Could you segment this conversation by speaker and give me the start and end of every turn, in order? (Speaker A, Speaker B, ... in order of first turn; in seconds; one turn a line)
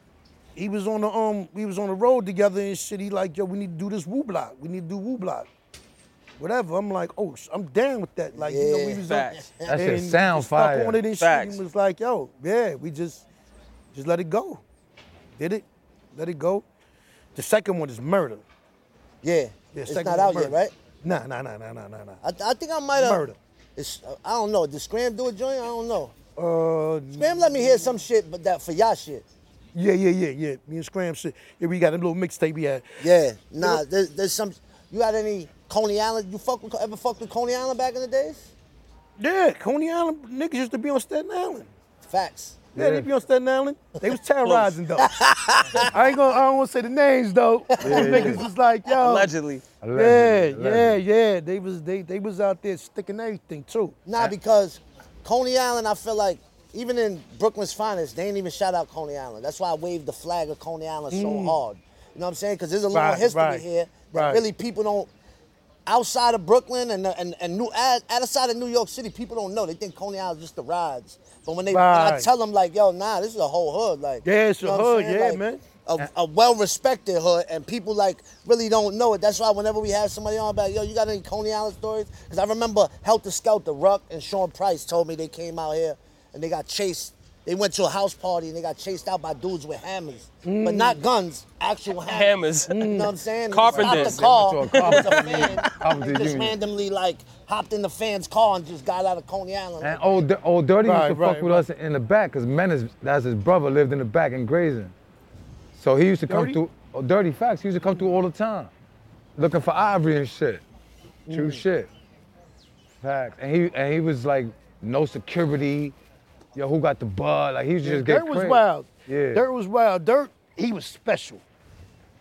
Speaker A: 0.5-5.5
Speaker A: 6.4-13.2
Speaker B: 8.3-9.7
Speaker C: 9.1-9.3
Speaker D: 9.7-11.0
Speaker C: 11.2-11.6
Speaker A: 13.9-14.6
Speaker A: 15.3-16.6
Speaker A: 17.3-18.4
Speaker B: 19.2-20.7
Speaker A: 19.7-22.2
Speaker B: 22.2-23.2
Speaker A: 22.9-23.4
Speaker B: 23.8-26.1
Speaker A: 26.4-28.0
Speaker B: 27.1-29.2
Speaker A: 29.7-33.0
Speaker B: 33.0-38.5
Speaker A: 39.2-41.7
Speaker B: 42.1-42.6
Speaker D: 42.7-43.1
Speaker A: 42.7-45.1
Speaker C: 44.4-44.8
Speaker B: 45.0-45.9
Speaker A: 45.8-49.3
Speaker B: 47.8-48.4
Speaker D: 47.8-48.4
Speaker C: 48.9-49.6
Speaker D: 49.8-51.0
Speaker A: 49.9-54.0
Speaker B: 54.0-65.1
Speaker A: 61.1-61.6
Speaker A: 62.9-64.4
Speaker B: 65.9-100.2
Speaker A: 71.7-72.3
Speaker A: 74.2-75.6
Speaker A: 90.4-91.0
Speaker C: 92.0-92.7
Speaker A: 92.7-93.1
Speaker C: 93.5-95.5
Speaker D: 93.7-96.6
Speaker D: 99.8-104.9
Speaker A: 100.8-101.6
Speaker D: 105.7-108.7
Speaker A: 106.3-106.6
Speaker D: 109.4-110.6
Speaker A: 111.3-111.6
Speaker D: 111.3-111.9
Speaker D: 113.0-115.9
Speaker D: 116.5-119.4
Speaker A: 117.8-121.4